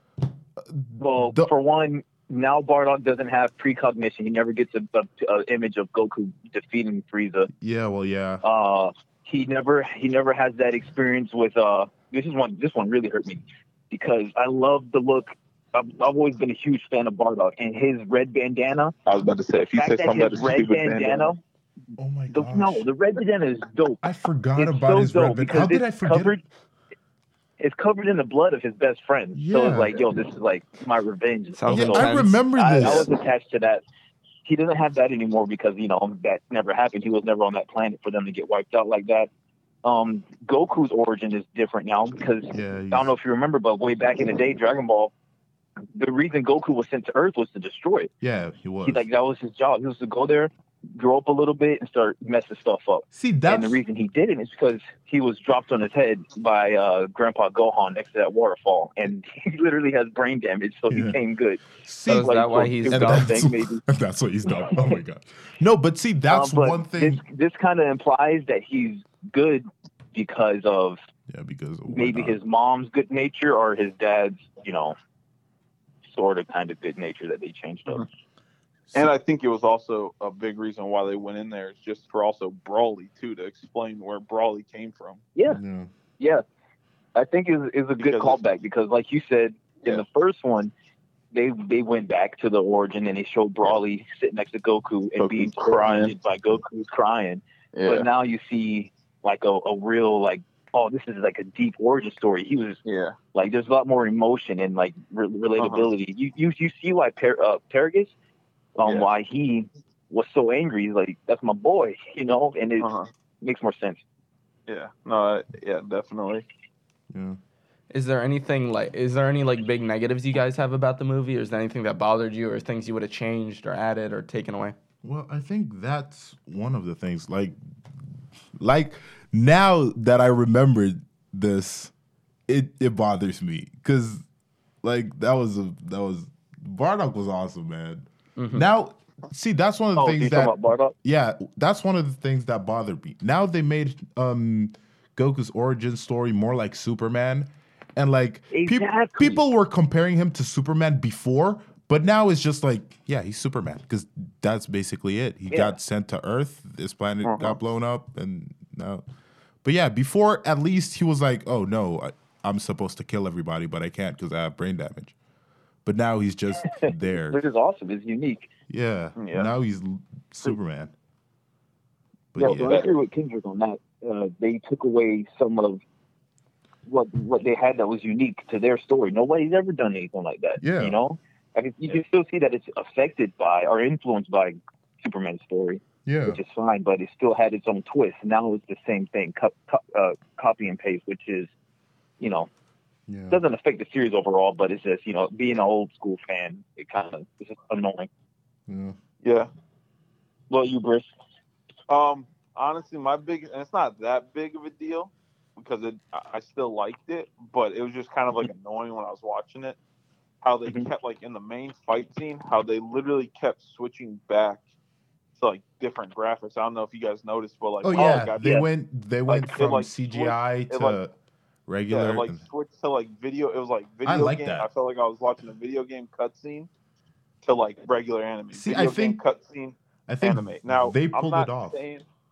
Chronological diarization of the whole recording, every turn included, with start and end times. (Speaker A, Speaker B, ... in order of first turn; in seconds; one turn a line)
Speaker A: 0.6-1.5
Speaker B: 1.0-7.5
Speaker A: 7.6-8.4
Speaker B: 8.4-18.9
Speaker C: 19.1-21.3
Speaker B: 19.8-21.4
Speaker A: 22.0-22.8
Speaker B: 22.3-24.0
Speaker A: 24.0-26.4
Speaker B: 24.6-26.4
Speaker B: 27.6-33.8
Speaker A: 29.3-30.0
Speaker D: 31.5-32.4
Speaker A: 31.7-33.1
Speaker B: 34.4-39.3
Speaker B: 39.8-45.1
Speaker A: 42.5-43.1
Speaker B: 45.9-48.1
Speaker A: 48.2-49.0
Speaker B: 48.8-63.8
Speaker A: 53.1-53.8
Speaker A: 60.9-61.2
Speaker A: 61.8-67.2
Speaker D: 62.1-63.5
Speaker B: 64.6-65.0
Speaker B: 66.3-71.0
Speaker A: 71.3-72.4
Speaker B: 71.9-75.0
Speaker B: 76.1-78.1
Speaker C: 78.9-85.2
Speaker A: 85.5-85.9
Speaker B: 86.2-86.4
Speaker B: 87.1-90.7
Speaker C: 88.0-88.4
Speaker B: 91.3-102.8
Speaker C: 95.2-96.1
Speaker C: 97.7-98.1
Speaker C: 102.8-103.2
Speaker B: 103.3-108.1
Speaker C: 105.6-105.9
Speaker B: 108.8-112.9
Speaker C: 108.8-109.1
Speaker C: 112.8-113.1
Speaker B: 113.4-114.0
Speaker C: 114.7-116.4
Speaker A: 117.1-117.4
Speaker D: 117.9-124.8
Speaker A: 125.0-127.5
Speaker A: 128.6-131.9
Speaker A: 132.5-134.2
Speaker A: 134.8-159.0
Speaker D: 138.3-138.6
Speaker B: 139.9-140.9
Speaker B: 148.5-149.4
Speaker C: 157.2-157.5
Speaker A: 159.6-165.1
Speaker A: 165.8-167.4
Speaker B: 166.7-168.5
Speaker A: 168.7-170.9
Speaker C: 169.2-169.5
Speaker A: 172.3-172.9
Speaker B: 172.4-175.8
Speaker C: 172.4-172.9
Speaker B: 176.9-191.5
Speaker A: 180.6-181.0
Speaker A: 186.0-186.4
Speaker B: 192.2-192.5
Speaker A: 193.1-193.4
Speaker B: 193.3-198.1
Speaker A: 198.7-198.9
Speaker C: 199.2-199.5
Speaker B: 200.5-201.1
Speaker C: 201.9-209.8
Speaker C: 210.4-214.6
Speaker C: 215.3-218.6
Speaker A: 217.8-221.1
Speaker B: 218.4-218.7
Speaker C: 219.3-221.0
Speaker A: 221.7-222.4
Speaker C: 221.9-226.7
Speaker A: 224.1-224.7
Speaker C: 227.4-232.0
Speaker A: 228.5-229.2
Speaker A: 230.1-231.8